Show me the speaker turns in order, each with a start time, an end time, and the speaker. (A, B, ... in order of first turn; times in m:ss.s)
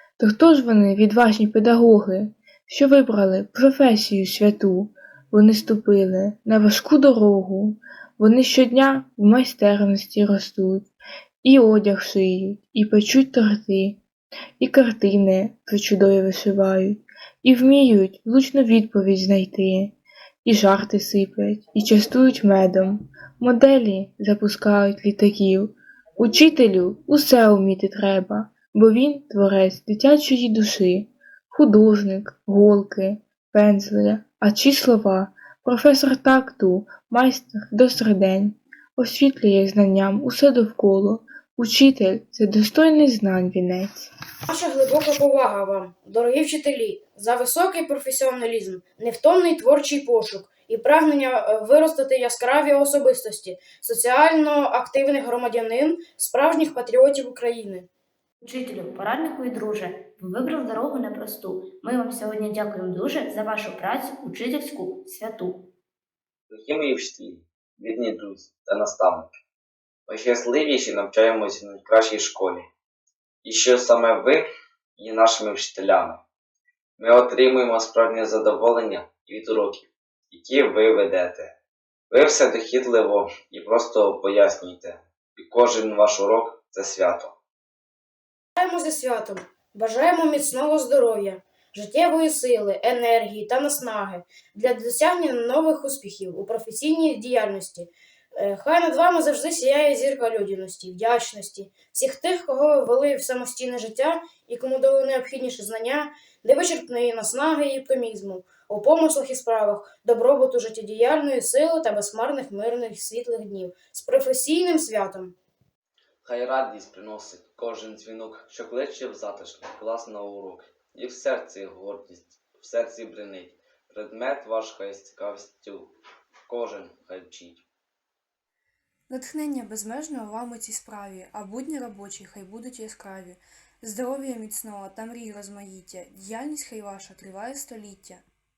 0:00.2-0:10.9 A
0:11.4-0:14.0 A
0:14.6-0:44.1 A
0:44.5-0:57.9 B
0:58.5-1:05.4 C
1:06.5-1:09.3 D
1:10.1-1:12.7 D
1:13.4-1:14.4 D
1:15.0-1:16.2 D
1:17.0-1:21.5 D
1:22.1-1:27.3 D
1:28.6-1:55.3 B
1:56.2-2:05.9 D
2:06.5-2:07.6 D
2:09.1-2:18.2 E